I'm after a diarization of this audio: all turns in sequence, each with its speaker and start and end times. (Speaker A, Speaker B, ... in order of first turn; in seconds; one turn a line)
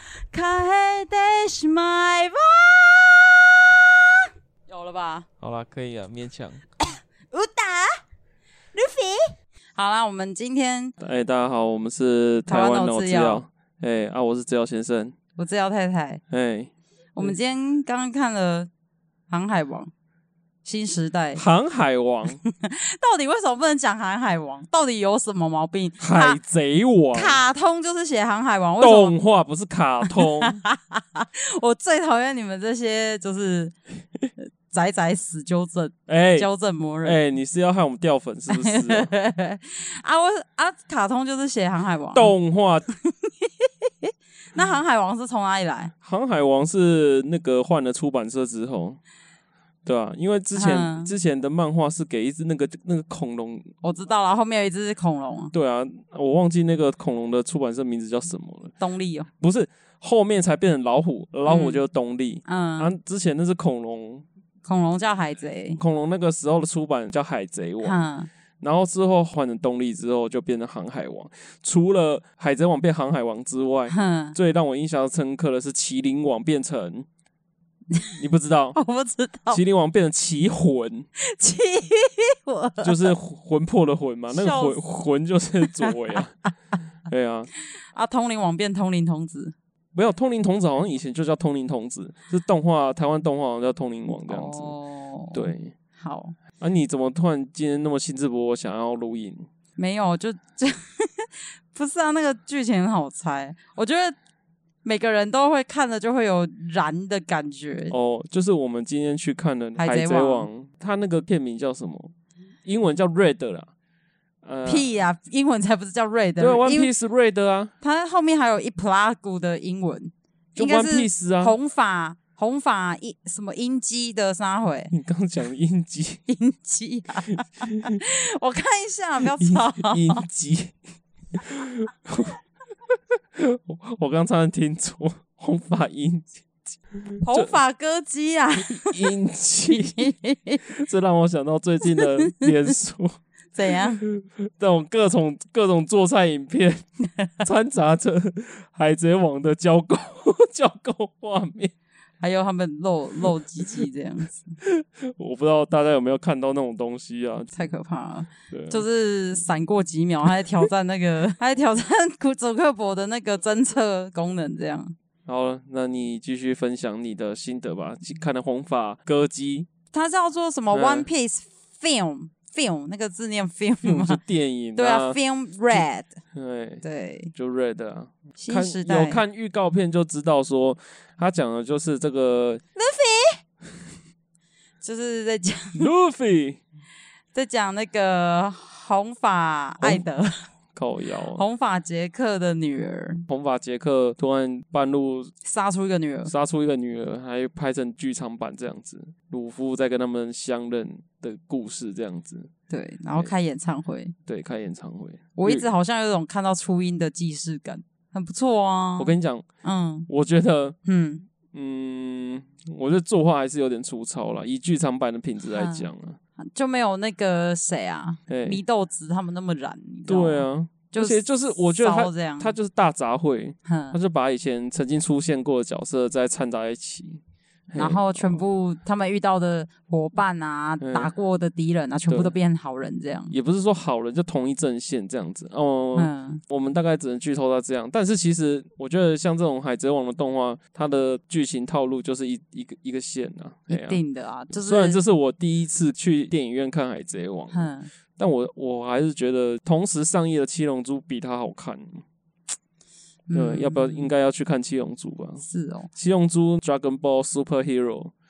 Speaker A: 0.3-4.0
Speaker A: 4.7-5.3
Speaker B: 5.4-6.6
Speaker A: 6.8-8.0
Speaker A: 8.7-10.9
Speaker B: 11.0-15.2
Speaker A: 12.5-13.4
Speaker A: 15.4-16.2
Speaker B: 16.3-17.3
Speaker A: 17.1-18.7
Speaker A: 19.3-19.9
Speaker A: 20.6-21.4
Speaker B: 21.4-22.4
Speaker A: 22.5-26.4
Speaker B: 26.0-27.4
Speaker A: 27.1-29.1
Speaker B: 28.8-30.6
Speaker A: 30.1-33.8
Speaker A: 34.7-37.2
Speaker B: 36.1-36.5
Speaker B: 37.0-39.1
Speaker A: 38.5-42.4
Speaker B: 42.1-42.9
Speaker A: 43.0-45.9
Speaker B: 46.0-49.0
Speaker B: 49.9-53.8
Speaker A: 50.5-51.1
Speaker A: 53.8-55.5
Speaker B: 55.5-58.7
Speaker A: 58.8-59.3
Speaker B: 59.4-64.2
Speaker A: 61.5-61.8
Speaker A: 62.5-62.9
Speaker A: 64.7-65.8
Speaker B: 65.8-68.0
Speaker A: 67.8-68.3
Speaker B: 68.6-77.1
Speaker A: 73.9-74.3
Speaker B: 78.1-78.8
Speaker A: 78.7-79.6
Speaker B: 79.5-81.1
Speaker A: 81.2-83.1
Speaker B: 82.8-86.3
Speaker A: 84.3-84.8
Speaker B: 87.1-87.5
Speaker A: 88.0-89.5
Speaker B: 90.0-94.7
Speaker A: 94.2-96.4
Speaker B: 95.3-95.7
Speaker B: 96.6-99.5
Speaker A: 99.8-104.2
Speaker A: 104.8-107.9
Speaker B: 107.9-112.1
Speaker A: 109.8-110.5
Speaker B: 112.7-113.7
Speaker B: 114.4-114.9
Speaker A: 114.7-116.9
Speaker B: 116.4-117.7
Speaker A: 117.8-124.9
Speaker B: 120.6-121.5
Speaker B: 124.9-126.2
Speaker A: 126.3-130.2
Speaker B: 127.7-128.0
Speaker B: 129.4-130.8
Speaker B: 131.3-132.4
Speaker B: 133.3-137.5
Speaker A: 137.2-139.1
Speaker B: 138.6-140.1
Speaker A: 139.7-140.6
Speaker B: 140.7-143.2
Speaker A: 142.0-142.5
Speaker A: 143.5-144.0
Speaker B: 144.0-146.8
Speaker B: 147.4-151.7
Speaker A: 152.2-154.6
Speaker B: 154.6-157.7
Speaker A: 157.5-164.9
Speaker B: 158.5-158.8
Speaker B: 165.3-169.7
Speaker A: 169.9-174.2
Speaker B: 170.7-171.1
Speaker B: 173.8-175.2
Speaker A: 174.8-176.2
Speaker B: 175.7-176.8
Speaker A: 176.8-177.3
Speaker B: 177.3-182.6
Speaker A: 178.4-179.2
Speaker A: 182.8-183.4
Speaker A: 184.8-185.9
Speaker B: 185.8-186.6
Speaker A: 187.3-190.4
Speaker B: 189.8-190.1
Speaker B: 190.8-191.4
Speaker A: 191.3-193.3
Speaker B: 193.3-195.3
Speaker A: 195.4-196.3
Speaker B: 196.3-202.5
Speaker A: 202.7-204.1
Speaker B: 204.3-205.7
Speaker A: 205.4-210.1
Speaker B: 209.0-209.5
Speaker B: 210.1-210.8
Speaker A: 210.8-211.3
Speaker B: 211.5-216.2
Speaker A: 215.5-215.9
Speaker A: 216.4-222.6
Speaker B: 218.3-218.6
Speaker B: 220.1-228.4
Speaker A: 223.7-224.0
Speaker A: 227.8-233.3
Speaker B: 230.8-231.1
Speaker B: 232.1-232.3
Speaker B: 233.3-252.0
Speaker A: 236.0-236.4
Speaker A: 243.7-245.0
Speaker A: 247.5-247.9
Speaker A: 253.3-254.1
Speaker B: 253.3-255.4
Speaker A: 255.4-255.9
Speaker B: 255.9-258.1